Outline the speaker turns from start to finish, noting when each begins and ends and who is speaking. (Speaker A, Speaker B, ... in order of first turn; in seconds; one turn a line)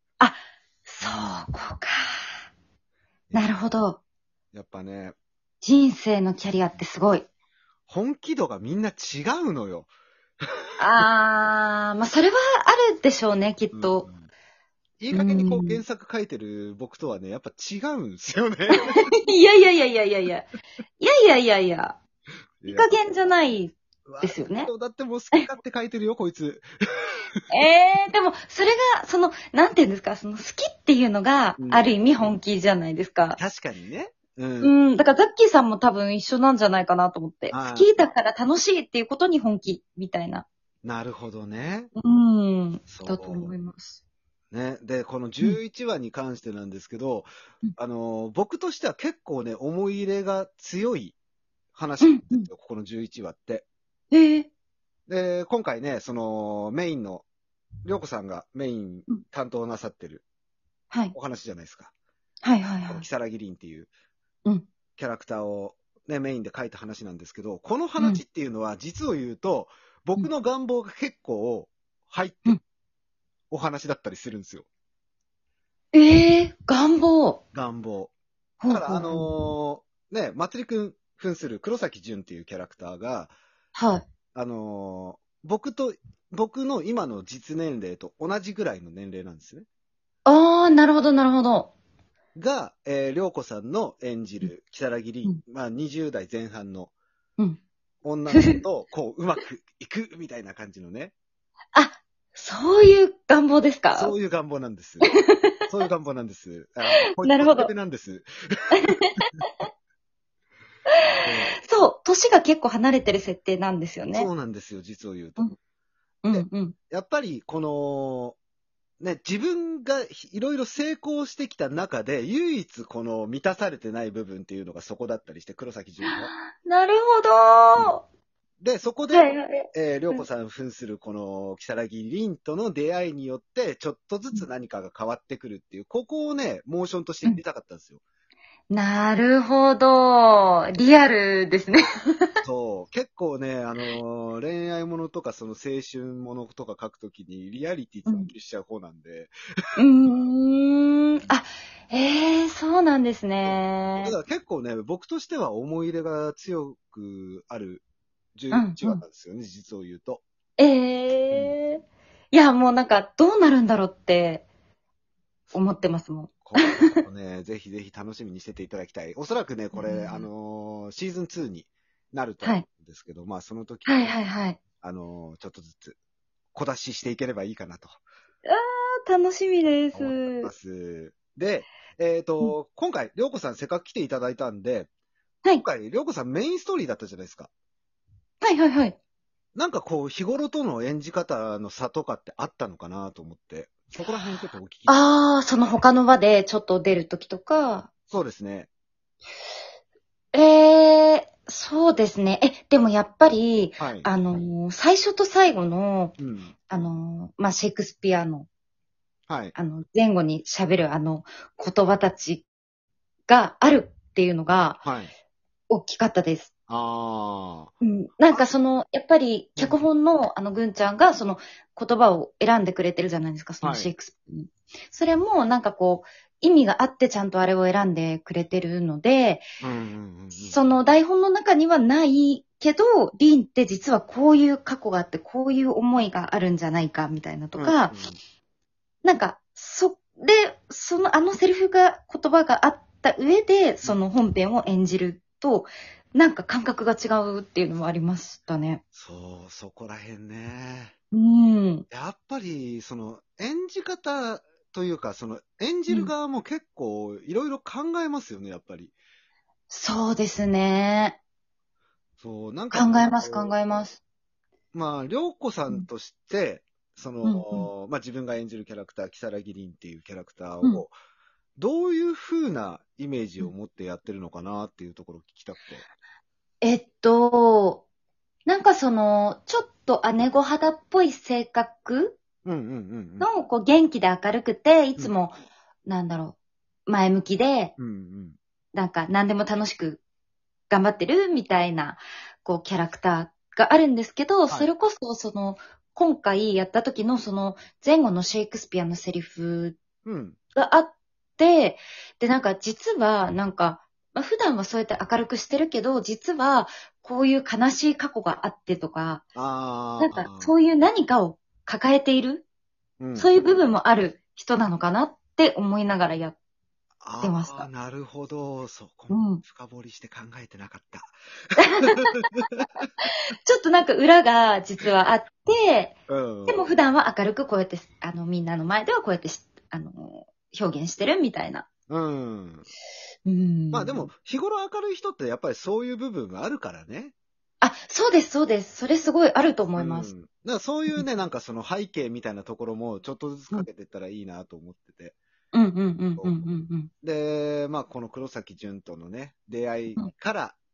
Speaker A: 0.2-2.3
Speaker B: 1.0-1.4
Speaker B: 3.3-3.7
Speaker A: 3.3-4.0
Speaker B: 4.5-5.1
Speaker A: 5.6-7.3
Speaker B: 7.9-9.9
Speaker A: 10.8-14.1
Speaker B: 13.7-14.3
Speaker B: 15.0-18.9
Speaker A: 15.1-15.8
Speaker A: 18.7-20.4
Speaker A: 21.0-22.0
Speaker B: 22.6-23.0
Speaker A: 22.7-24.7
Speaker B: 24.1-26.7
Speaker A: 27.5-33.4
Speaker B: 31.6-32.4
Speaker B: 33.4-34.8
Speaker A: 34.6-40.4
Speaker B: 37.5-37.9
Speaker B: 40.8-41.9
Speaker A: 41.9-44.0
Speaker B: 42.9-43.5
Speaker B: 44.5-51.1
Speaker B: 51.7-53.6
Speaker A: 52.0-52.5
Speaker A: 54.1-54.5
Speaker B: 55.1-57.2
Speaker B: 57.8-60.2
Speaker B: 61.1-61.9
Speaker A: 62.4-63.0
Speaker B: 62.8-63.9
Speaker B: 65.0-72.6
Speaker B: 73.5-74.7
Speaker A: 75.9-77.4
Speaker B: 77.5-78.1
Speaker A: 78.6-79.3
Speaker B: 78.7-83.3
Speaker A: 83.7-84.1
Speaker B: 84.3-89.7
Speaker A: 90.2-91.7
Speaker B: 92.3-96.9
Speaker B: 98.0-101.1
Speaker A: 98.3-98.6
Speaker A: 101.7-104.1
Speaker B: 103.9-105.1
Speaker A: 105.0-105.7
Speaker B: 105.7-108.7
Speaker A: 107.2-107.7
Speaker A: 108.7-109.2
Speaker A: 111.0-114.3
Speaker B: 111.2-111.6
Speaker B: 114.1-115.5
Speaker A: 116.2-116.7
Speaker B: 116.3-118.4
Speaker B: 119.0-126.3
Speaker A: 126.0-128.0
Speaker B: 128.6-138.0
Speaker A: 129.1-130.2
Speaker A: 138.7-142.4
Speaker B: 142.4-149.3
Speaker A: 148.1-148.3
Speaker A: 149.8-154.1
Speaker B: 153.4-157.8
Speaker B: 158.3-160.2
Speaker A: 158.5-159.0
Speaker A: 160.6-164.4
Speaker B: 161.3-161.6
Speaker A: 165.5-167.0
Speaker B: 166.4-174.2
Speaker A: 169.7-170.3
Speaker A: 173.8-174.6
Speaker B: 174.8-176.0
Speaker B: 176.5-178.0
Speaker A: 178.4-180.5
Speaker B: 179.9-184.9
Speaker B: 185.6-187.5
Speaker A: 188.4-188.9
Speaker B: 189.5-195.0
Speaker A: 194.9-197.9
Speaker B: 198.1-198.7
Speaker A: 200.3-206.1
Speaker B: 203.8-204.1
Speaker B: 206.2-206.6
Speaker A: 206.7-208.5
Speaker B: 209.3-209.5
Speaker A: 209.5-212.4
Speaker A: 213.3-214.8
Speaker B: 214.8-215.1
Speaker A: 215.7-216.5
Speaker B: 216.7-217.7
Speaker A: 217.8-229.4
Speaker B: 219.6-219.8
Speaker B: 223.6-223.9
Speaker B: 229.6-230.6
Speaker A: 230.3-237.9
Speaker B: 237.6-238.2
Speaker A: 239.0-248.8
Speaker B: 248.9-250.9
Speaker A: 251.1-251.8
Speaker B: 251.9-258.9
Speaker A: 259.7-261.2
Speaker B: 262.2-263.6
Speaker A: 262.7-264.0
Speaker B: 264.7-270.9
Speaker A: 267.2-267.7
Speaker B: 271.6-275.8
Speaker A: 276.6-277.8
Speaker A: 278.4-282.2
Speaker B: 282.4-283.3
Speaker A: 283.2-285.3
Speaker A: 285.9-286.4
Speaker A: 286.9-287.7
Speaker B: 287.8-288.4
Speaker A: 288.7-290.0
Speaker A: 290.7-299.8
Speaker B: 300.0-300.4
Speaker A: 300.5-309.2
Speaker B: 309.3-310.5
Speaker A: 310.0-312.4
Speaker B: 313.0-313.4
Speaker A: 313.1-316.4
Speaker B: 317.0-322.7
Speaker A: 317.2-317.7
Speaker A: 319.1-319.4
Speaker A: 321.6-322.3
Speaker A: 323.0-325.9
Speaker B: 326.1-326.8
Speaker A: 326.5-331.7
Speaker B: 331.9-332.6
Speaker A: 333.2-334.1
Speaker B: 333.7-337.1
Speaker A: 337.6-340.1
Speaker B: 339.8-345.2
Speaker A: 345.5-346.9
Speaker B: 346.2-350.6